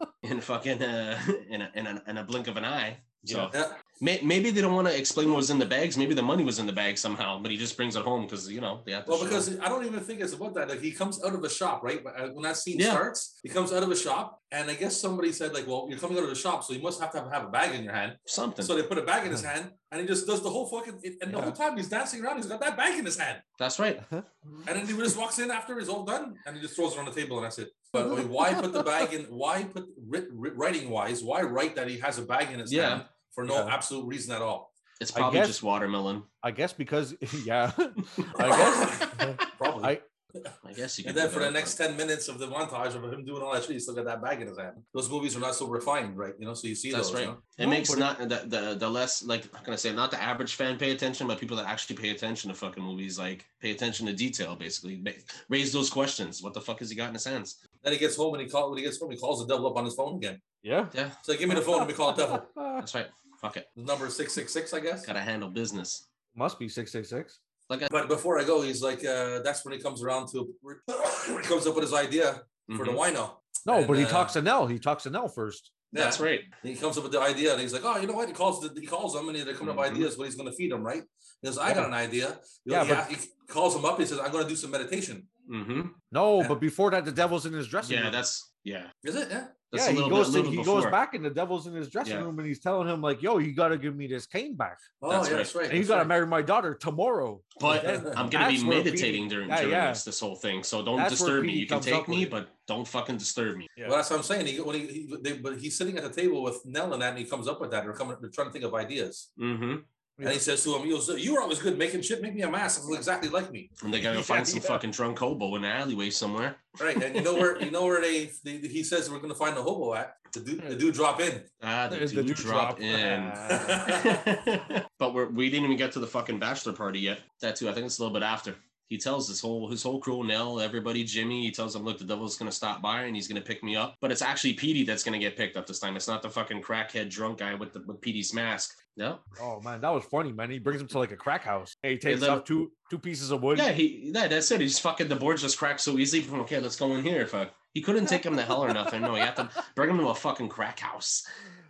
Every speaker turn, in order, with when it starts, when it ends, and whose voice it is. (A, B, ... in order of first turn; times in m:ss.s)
0:00.2-0:09.5 A
0:03.2-0:03.6 B
0:03.5-0:03.8 C
0:09.1-0:23.4 C
0:12.7-0:13.0 A
0:18.3-0:18.7 A
0:21.3-0:21.6 B
0:23.6-0:24.7 A
0:24.6-0:34.7 C
0:28.0-0:29.0 B
0:32.7-0:33.0 A
0:33.5-0:33.8 B
0:35.0-0:36.3 A
0:35.1-0:35.6 B
0:36.4-0:40.0 B
0:38.2-0:39.5 A
0:38.4-0:40.5 C
0:40.6-0:41.8 A
0:41.0-0:47.4 C
0:46.9-0:57.6 A
0:47.6-0:48.1 B
0:57.8-1:00.4 C
1:00.6-1:01.0 B
1:00.9-1:01.2 A
1:01.2-1:02.5 C
1:01.5-1:02.8 B
1:02.8-1:03.7 A
1:03.8-1:05.1 C
1:05.0-1:06.1 A
1:06.4-1:07.4 B
1:07.9-1:14.3 C
1:12.7-1:13.0 A
1:13.7-1:15.7 B
1:15.9-1:16.5 A
1:15.9-1:25.3 C
1:19.6-1:20.1 A
1:22.7-1:23.1 B
1:25.5-1:26.0 A
1:26.1-1:28.2 B
1:27.8-1:28.9 A
1:29.0-1:29.6 C
1:29.7-1:31.0 A
1:29.7-1:34.8 B
1:32.0-1:32.3 A
1:35.0-1:36.2 C
1:35.1-1:35.5 A
1:35.7-1:40.0 B
1:37.6-1:43.7 A
1:37.7-1:38.2 C
1:41.0-1:42.4 B
1:43.8-1:49.3 C
1:49.4-1:49.9 A
1:50.2-1:50.4 B
1:50.2-1:53.7 C
1:53.8-1:57.6 A
1:54.0-1:54.8 B
1:56.8-2:01.5 C
2:01.6-2:19.2 A
2:01.9-2:04.2 B
2:03.5-2:04.2 C
2:19.4-2:23.7 B
2:22.0-2:22.5 A
2:23.5-2:31.3 A